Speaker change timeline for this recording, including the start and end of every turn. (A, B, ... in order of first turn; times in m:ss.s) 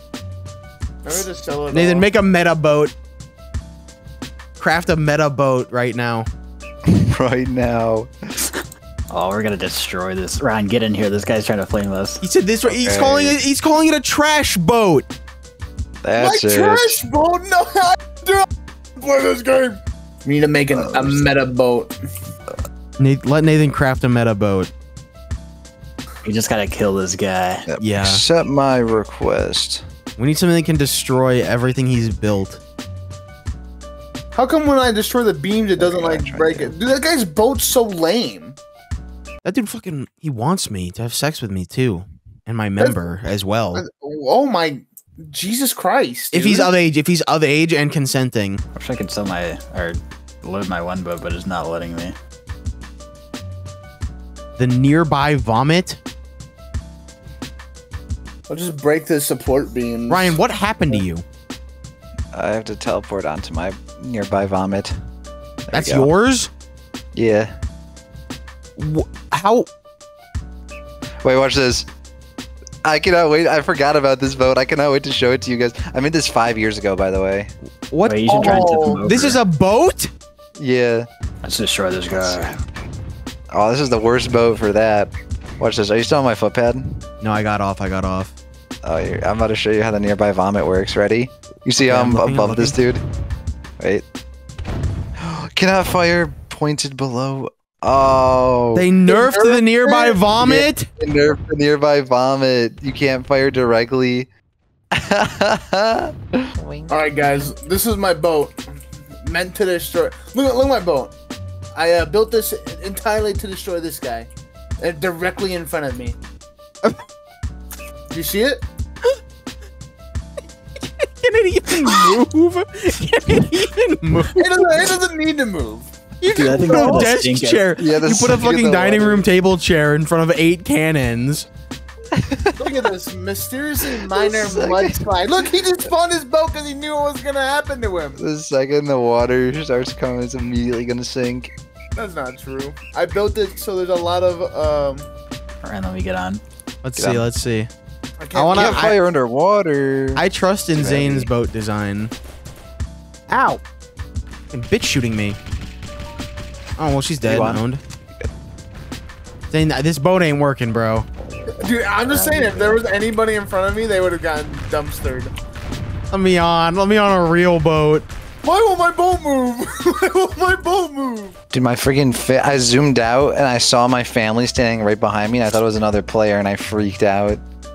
0:01.0-0:02.1 A
0:01.7-0:02.9 B
0:04.6-0:06.3 B
0:06.9-0:08.1 C
0:09.1-0:12.2 D
0:12.2-0:15.1 B
0:12.7-0:13.4 C
0:16.0-0:17.0 C
0:16.2-0:22.0 A
0:20.7-0:21.2 C
0:23.0-0:24.7 B
0:26.2-0:27.7 D
0:27.7-0:29.8 C
0:27.8-0:28.2 B
0:30.2-0:32.6 B
0:34.3-0:38.6 A
0:35.8-0:36.8 C
0:39.4-0:43.8 B
0:43.8-0:46.7 A
0:46.3-0:48.6 B
0:48.8-0:52.2 D
0:54.6-0:56.0 B
0:58.5-1:00.4 A
1:00.1-1:01.2 B
1:02.3-1:05.0 C
1:05.7-1:06.1 C
1:05.7-1:06.5 B
1:07.1-1:07.5 C
1:08.8-1:09.7 B
1:11.2-1:11.9 C
1:12.8-1:17.5 C
1:17.9-1:20.1 B
1:18.1-1:19.4 D
1:18.3-1:19.0 A
1:20.6-1:21.1 C
1:21.4-1:22.6 D
1:22.1-1:22.6 C
1:23.5-1:27.1 C
1:27.2-1:28.4 B
1:28.8-1:33.0 C
1:31.8-1:32.8 B
1:33.8-1:34.0 C
1:35.2-1:38.9 C
1:38.8-1:40.9 B
1:39.1-1:40.2 A
1:40.3-1:44.3 C
1:44.9-1:46.9 C
1:46.9-1:48.6 A
1:49.2-1:51.1 A
1:51.7-1:54.3 A
1:54.8-1:56.2 A
1:58.1-1:58.6 A
2:00.8-2:04.4 B
2:04.3-2:05.9 A
2:06.2-2:11.5 B
2:06.4-2:07.7 D
2:06.7-2:07.1 A
2:07.8-2:09.3 C
2:12.1-2:12.8 C
2:12.6-2:18.2 A
2:14.0-2:15.0 C
2:18.2-2:21.5 C
2:22.0-2:25.1 A
2:25.6-2:26.4 D
2:26.8-2:27.7 B
2:27.0-2:27.3 C
2:28.2-2:28.9 A
2:28.3-2:29.0 B
2:28.5-2:31.3 C
2:30.2-2:32.1 B
2:33.3-2:33.6 B
2:34.5-2:35.4 B
2:36.8-2:37.8 B
2:37.3-2:37.6 C
2:39.5-2:41.1 B
2:41.6-2:45.3 A
2:42.1-2:42.8 C
2:46.1-2:48.1 B
2:48.4-2:51.4 A
2:51.5-2:57.4 C